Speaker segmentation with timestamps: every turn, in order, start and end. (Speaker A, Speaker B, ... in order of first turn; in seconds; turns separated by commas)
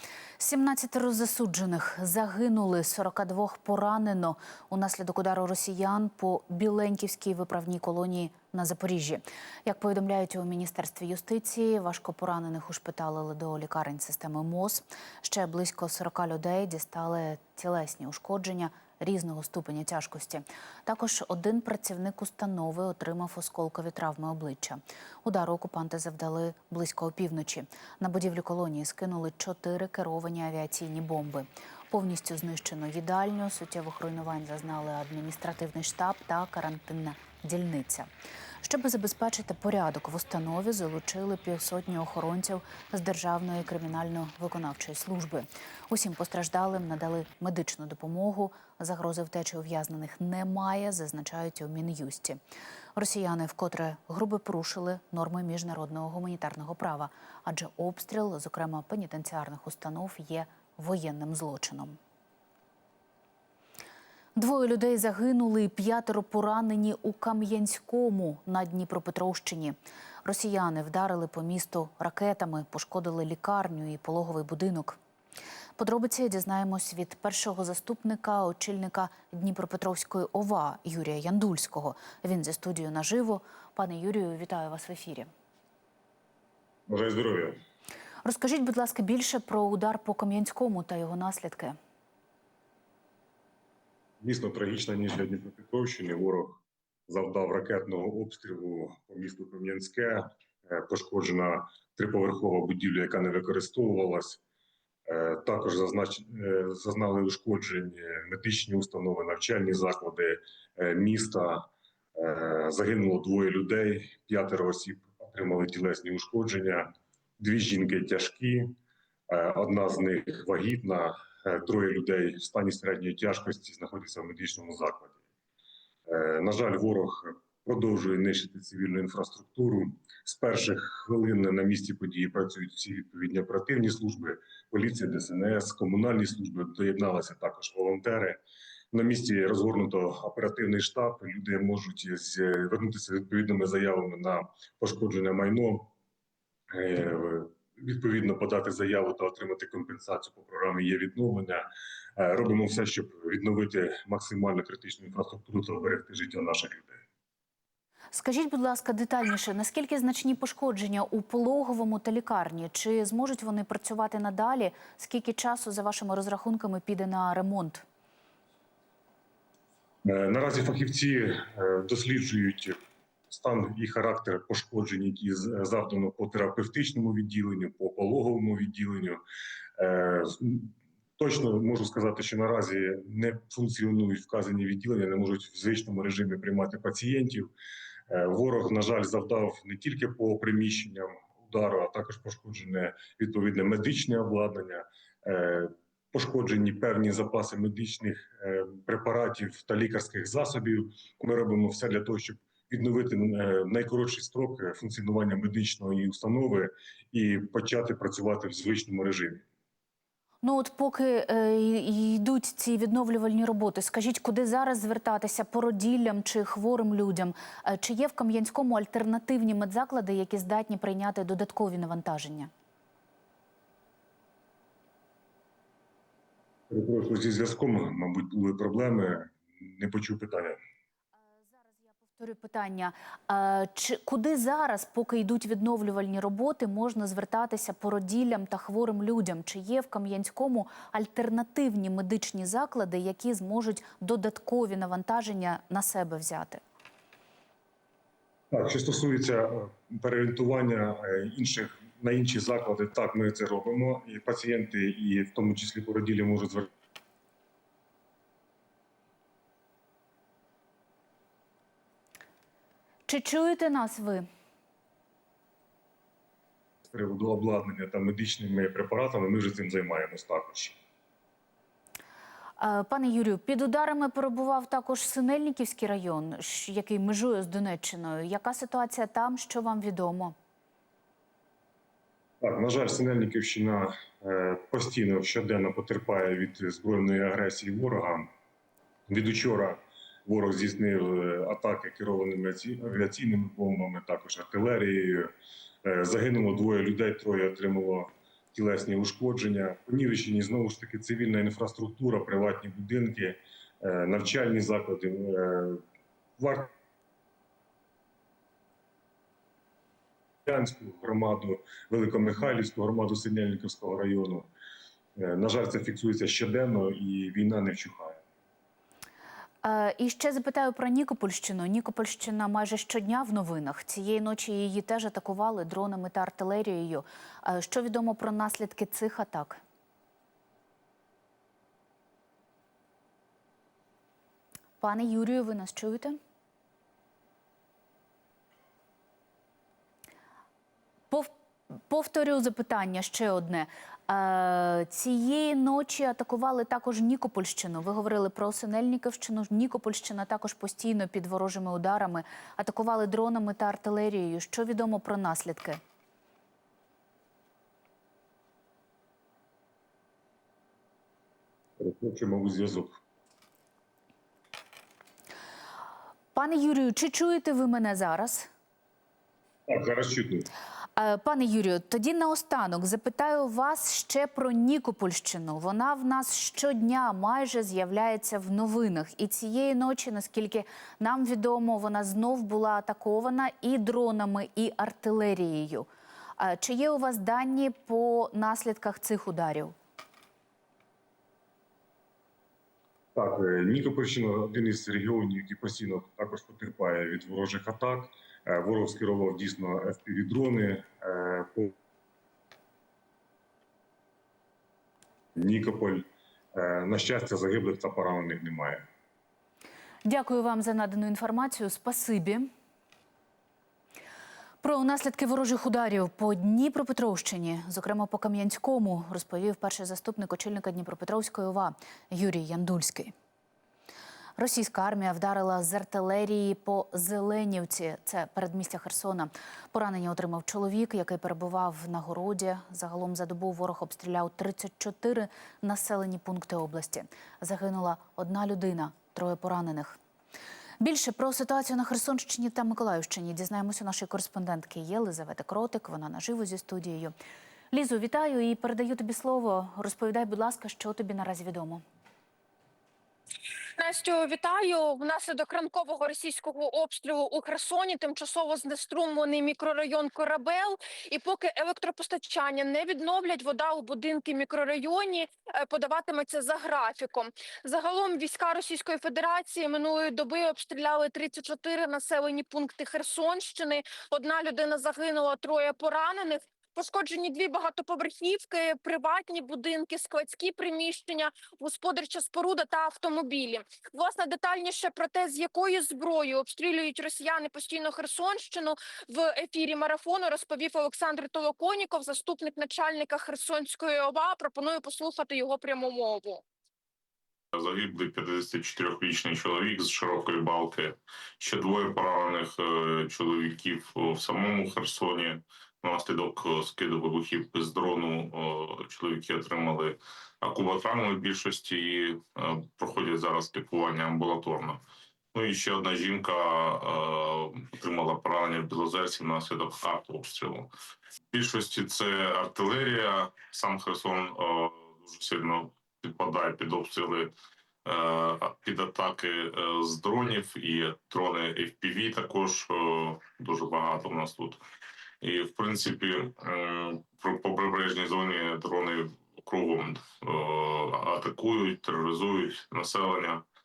Speaker A: 0.4-38.1, Speaker A: 38.6-52.4, Speaker A: 53.0-62.0, Speaker A: 64.4-75.0, Speaker A: 75.8-85.3, Speaker B: 86.9-87.5, Speaker A: 88.2-91.8, Speaker B: 94.2-104.4, Speaker B: 105.1-116.9, Speaker B: 117.4-118.7, Speaker B: 119.3-125.2, Speaker B: 126.1-138.4, Speaker B: 138.9-145.9, Speaker B: 146.7-151.6, Speaker B: 152.2-157.0, Speaker A: 158.1-167.8, Speaker B: 170.1-172.8, Speaker B: 173.3-179.2, Speaker B: 179.8-187.5, Speaker B: 188.1-209.4, Speaker A: 210.4-222.5, Speaker B: 226.7-230.6, Speaker A: 231.6-246.6, Speaker B: 248.5-256.7, Speaker A: 263.1-264.3, Speaker B: 266.9-270.8, Speaker A: 272.6-280.4, Speaker B: 282.4-288.3, Speaker B: 289.1-295.3, Speaker B: 295.9-305.8, Speaker B: 306.4-306.7, Speaker B: 310.5-314.5, Speaker B: 315.2-318.2, Speaker A: 319.6-329.6, Speaker A: 334.8-336.2, Speaker A: 341.9-355.8, Speaker B: 361.8-363.0, Speaker A: 366.3-368.5, Speaker B: 369.7-370.5, Speaker A: 371.0-385.9, Speaker A: 386.4-389.7, Speaker B: 393.1-401.7, Speaker B: 405.4-408.9, Speaker A: 410.1-412.5, Speaker A: 414.6-423.1, Speaker A: 424.4-440.0, Speaker A: 440.8-447.1, Speaker A: 447.7-451.8, Speaker C: 453.8-496.4, Speaker D: 497.5-514.8, Speaker D: 515.3-520.7, Speaker D: 521.3-527.3, Speaker D: 527.9-534.6, Speaker D: 535.2-543.4